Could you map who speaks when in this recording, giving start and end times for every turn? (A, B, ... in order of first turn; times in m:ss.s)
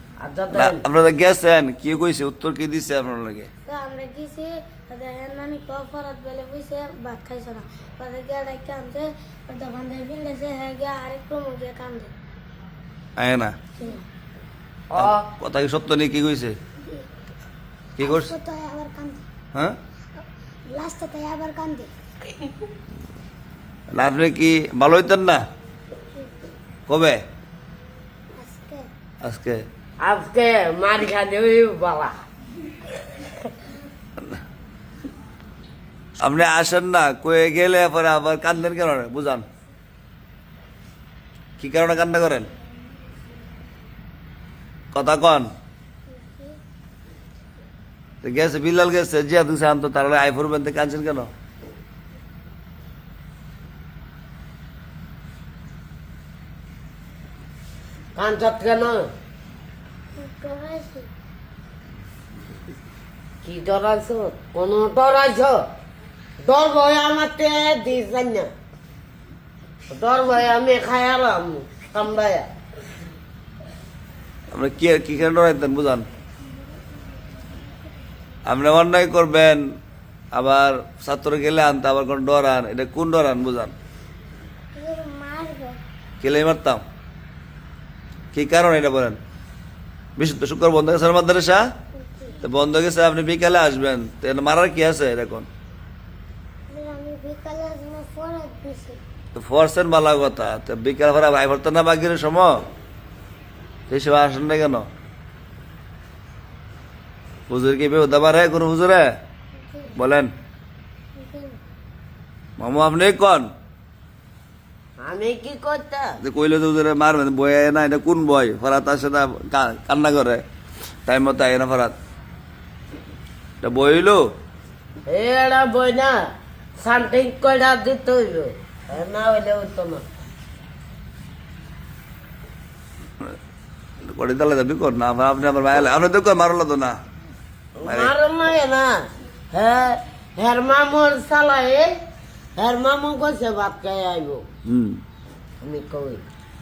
0:00.2-0:00.8 A
0:00.5-0:03.5 B
0:03.6-0:12.1 C
0:13.2-0:13.5 B
0:13.8-0:14.0 C
0:14.9-0:15.2 A
0:15.0-0:16.6 B
0:18.0-0:18.3 B
0:18.0-0:19.2 C
0:20.7-0:21.9 C
0:23.9-0:25.4 B
0:26.9-0:27.2 B
0:28.4-0:28.9 C
0:29.2-0:29.6 B
0:30.0-0:32.1 A
0:36.2-0:39.4 B
0:41.6-0:42.5 B
0:44.9-0:45.5 B
0:46.1-0:46.6 C
0:48.2-0:51.3 B
0:58.2-0:59.1 A
1:00.2-1:01.1 C
1:03.4-1:05.6 A
1:06.4-1:08.5 A
1:09.9-1:12.5 A
1:14.5-1:16.0 B
1:18.4-1:19.6 B
1:20.3-1:23.7 B
1:24.7-1:25.8 C
1:26.2-1:26.8 B
1:28.3-1:29.2 B
1:30.2-1:31.6 B
1:32.0-1:32.4 C
1:32.4-1:35.5 B
1:36.7-1:39.0 C
1:39.3-1:42.6 B
1:43.9-1:44.9 B
1:47.5-1:49.1 B
1:49.6-1:49.9 C
1:49.9-1:50.3 B
1:51.2-1:51.6 C
1:52.6-1:53.5 B
1:55.0-1:56.1 A
1:56.2-2:00.4 B
2:01.0-2:01.9 B
2:03.6-2:04.2 B
2:05.1-2:06.2 A
2:06.8-2:10.0 A
2:14.0-2:17.0 B
2:17.8-2:21.9 A
2:17.8-2:18.1 B
2:22.6-2:24.4 A
2:24.7-2:25.0 B
2:25.6-2:26.2 A